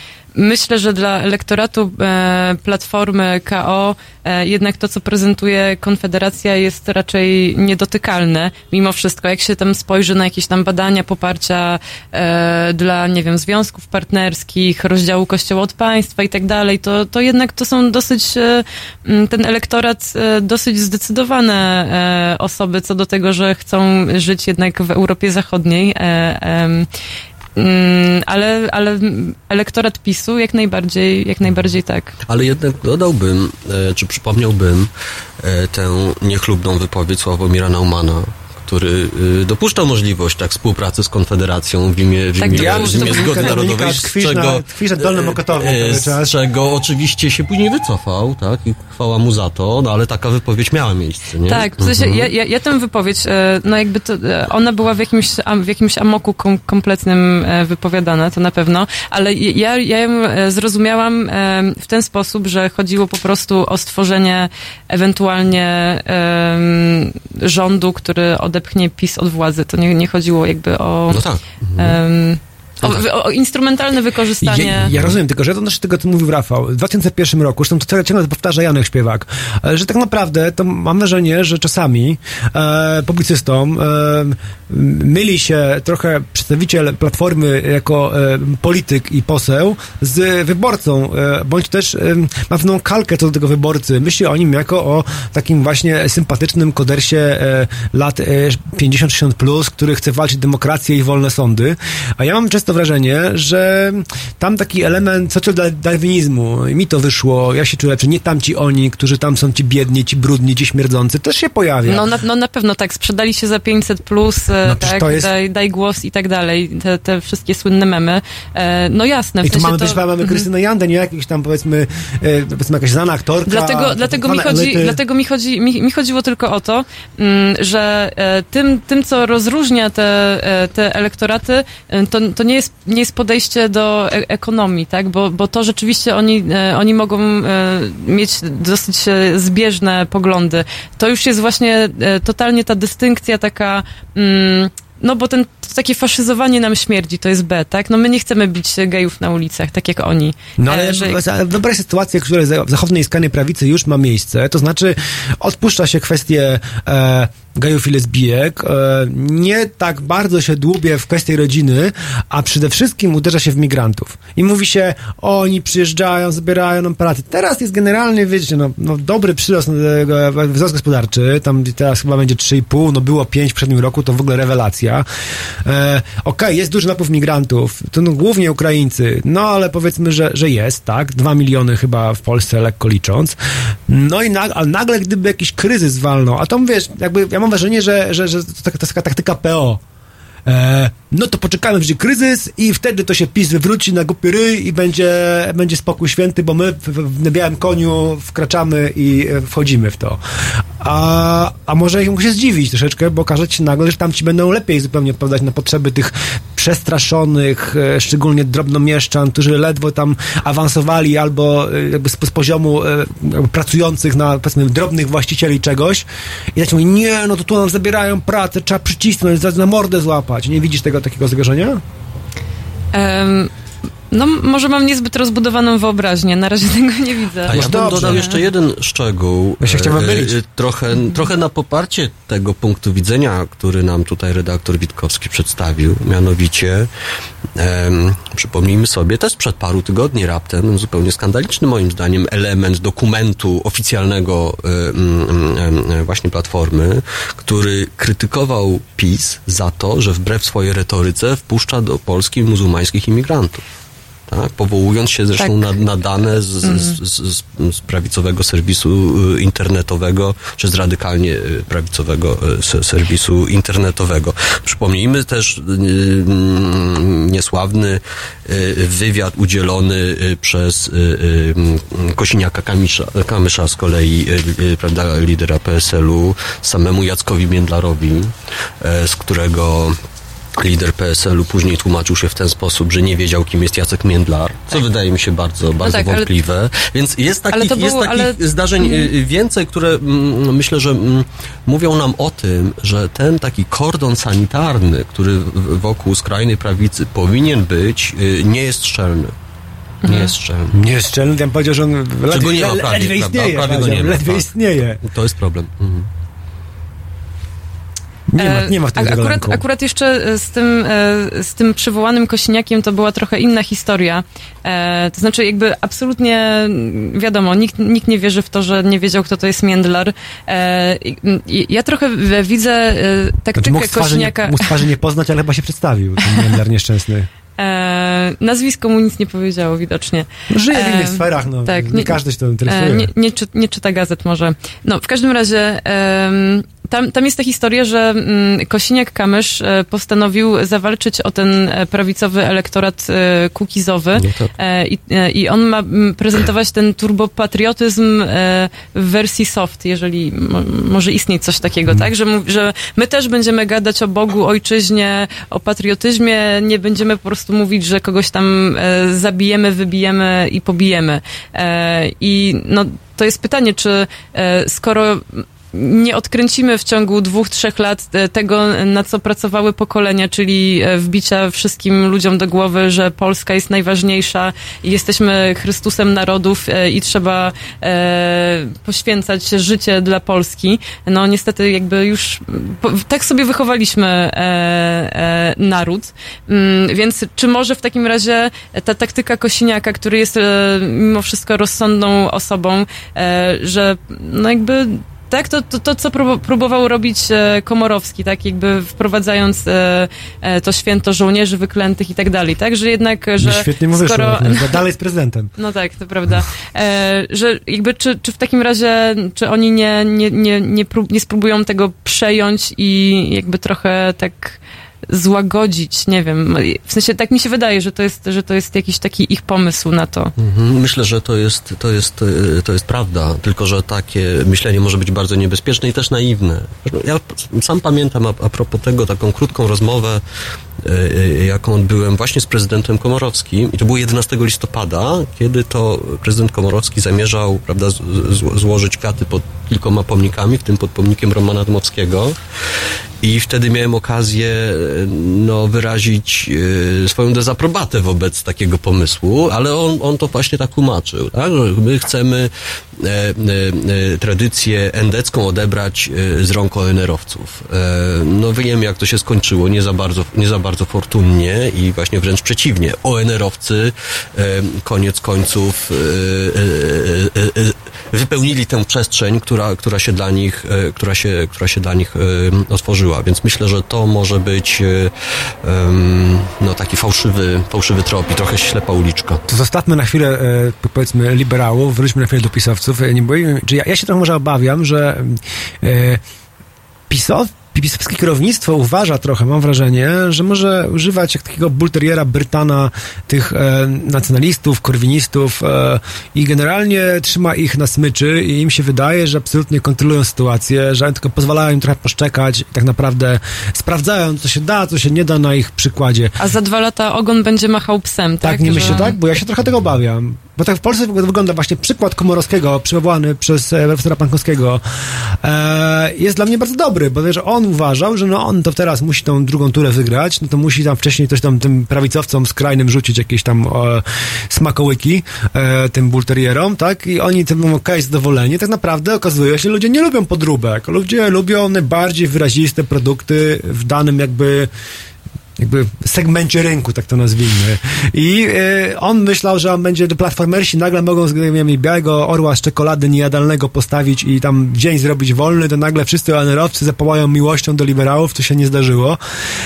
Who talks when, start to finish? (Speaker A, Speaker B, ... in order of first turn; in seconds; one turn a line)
Speaker A: 0.3-26.9
Speaker A: 27.6-32.1
Speaker B: 32.3-34.9
Speaker B: 35.4-52.3
Speaker A: 42.4-43.6
Speaker C: 42.5-46.4
Speaker A: 51.5-71.2
Speaker B: 71.1-72.0
Speaker A: 71.8-74.9
Speaker C: 74.4-112.0
Speaker B: 74.9-75.2
Speaker A: 111.9-120.4
Speaker C: 114.6-115.3
Speaker C: 119.4-125.0
Speaker A: 123.5-151.2
Speaker C: 150.6-175.0
Speaker C: 175.6-183.3
Speaker C: 183.9-189.8
Speaker C: 190.4-200.2
Speaker C: 200.8-221.8
Speaker A: 222.9-223.5
Speaker A: 224.1-228.4
Speaker C: 227.5-228.3
Speaker B: 227.5-236.9
Speaker C: 229.6-230.3
Speaker B: 237.6-253.6
Speaker B: 254.3-279.9
Speaker A: 255.4-255.7
Speaker A: 256.6-257.0
Speaker B: 280.6-299.3
Speaker A: 285.8-286.3
Speaker A: 287.5-289.1
Speaker A: 300.0-300.3
Speaker B: 300.0-300.8
Speaker C: 300.7-305.0
Speaker B: 302.3-306.1
Speaker C: 308.3-309.6
Speaker A: 308.4-324.8
Speaker C: 323.5-327.3
Speaker A: 327.6-404.8
Speaker C: 330.5-333.1
Speaker B: 344.2-344.5
Speaker C: 403.4-405.5
Speaker A: 405.6-420.3
Speaker B: 420.4-430.2
Speaker B: 430.8-442.4
Speaker B: 443.2-475.1
Speaker B: 475.6-479.4
Speaker C: 479.5-486.2
Speaker C: 487.1-506.3
Speaker A: 506.4-509.2
Speaker C: 508.4-534.7
Speaker C: 535.6-549.2